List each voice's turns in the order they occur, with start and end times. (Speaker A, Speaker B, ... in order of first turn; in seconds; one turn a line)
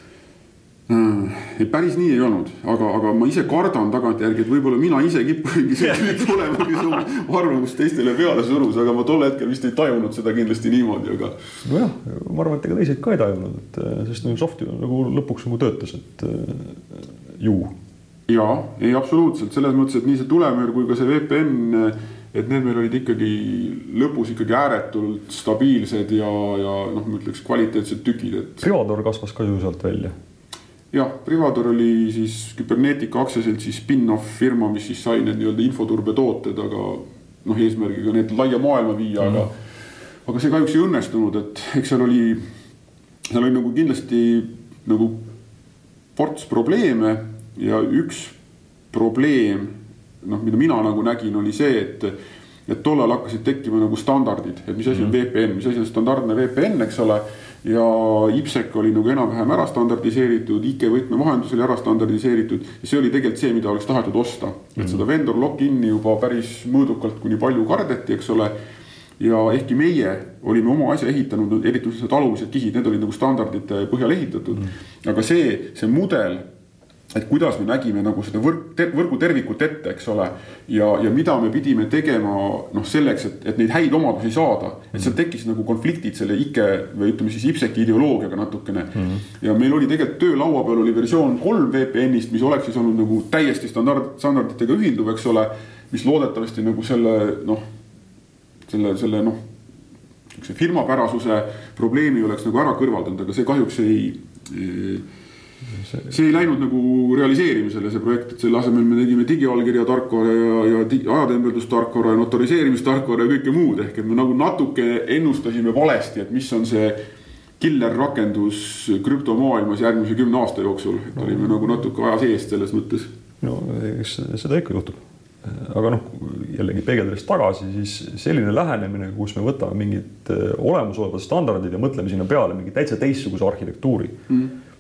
Speaker A: 0.9-11.3
Speaker B: 11.7-17.7
Speaker A: 18.3-28.6
Speaker B: 28.6-30.1
Speaker A: 30.9-39.5
Speaker A: 40.3-42.4
Speaker A: 43.3-45.2
Speaker A: 46.2-48.4
Speaker A: 48.9-52.1
Speaker A: 52.7-68.5
Speaker A: 69.2-76.4
Speaker A: 77.1-97.6
Speaker A: 98.7-99.4
Speaker A: 100.3-105.0
Speaker A: 106.0-117.0
Speaker A: 117.6-123.1
Speaker B: 123.4-134.2